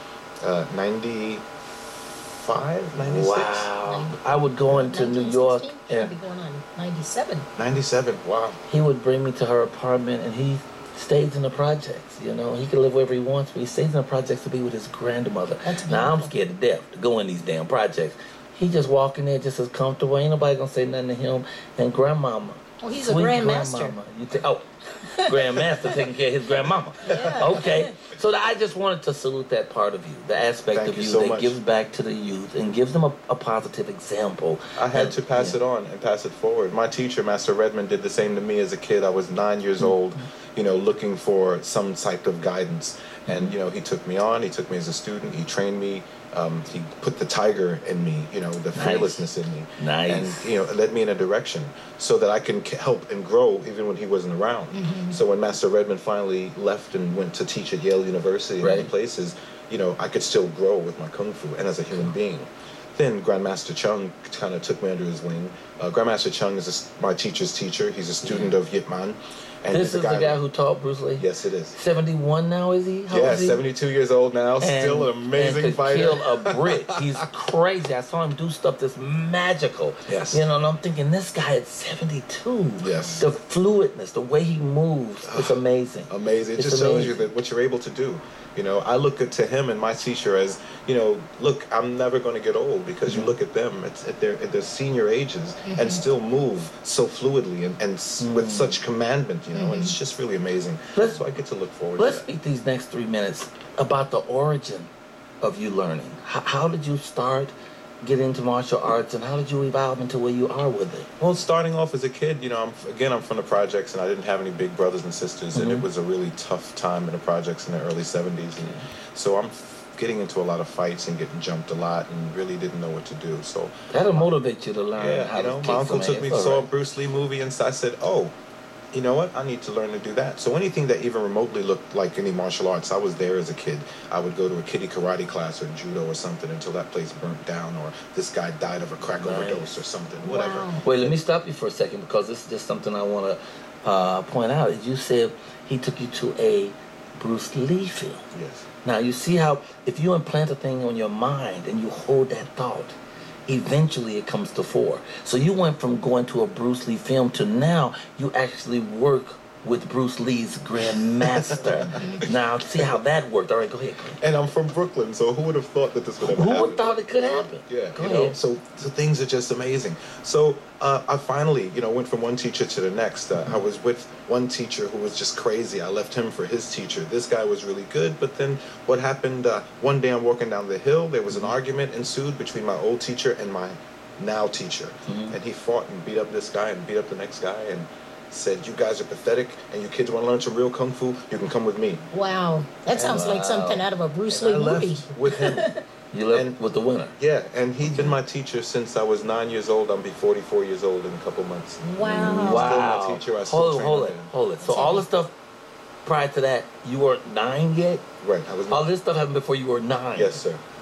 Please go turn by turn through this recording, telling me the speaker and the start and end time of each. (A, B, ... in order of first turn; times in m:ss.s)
0:00.4-0:01.5 A
0:02.2-0:03.7 A
0:03.0-0:06.1 B
0:03.8-0:07.5 C
0:07.6-0:08.6 A
0:08.7-0:35.6 B
0:15.6-0:16.4 C
0:22.8-0:24.0 C
0:27.0-0:27.9 C
0:27.0-0:27.4 A
0:30.7-0:31.6 A
0:34.8-1:10.4 A
0:43.3-0:43.5 B
0:48.8-0:50.5 B
0:54.7-0:55.2 C
0:58.6-0:58.9 B
1:08.2-1:08.6 B
1:09.7-1:13.6 B
1:11.2-1:11.8 A
1:13.1-1:17.2 A
1:14.6-1:27.2 B
1:20.1-1:20.4 A
1:22.8-1:23.2 A
1:25.3-1:25.6 A
1:26.1-1:42.3 A
1:33.1-1:33.3 B
1:35.7-1:36.0 C
1:38.2-1:38.8 B
1:39.5-1:40.0 C
1:42.0-1:44.9 B
1:45.4-1:51.1 B
1:51.2-2:04.3 A
1:55.6-1:55.9 B
2:03.9-2:06.6 B
2:05.0-2:08.3 A
2:08.9-2:21.2 A
2:19.0-2:19.7 B
2:20.2-2:20.8 C
2:20.8-2:28.2 B
2:28.3-2:28.6 A
2:28.8-2:33.0 B
2:33.5-2:44.2 B
2:41.2-2:42.2 A
2:44.2-3:12.0 A
2:46.2-2:48.4 B
3:05.1-3:05.4 B
3:12.1-3:15.8 C
3:12.9-3:13.8 B
3:14.3-3:15.7 A
3:16.1-3:17.2 B
3:16.3-3:16.6 A
3:17.2-3:24.3 A
3:17.8-3:18.2 B
3:21.8-3:22.7 C
3:22.1-3:25.3 B
3:24.6-3:25.1 C
3:26.0-3:28.0 B
3:28.2-3:28.9 A
3:28.7-3:30.4 B
3:30.1-3:30.6 A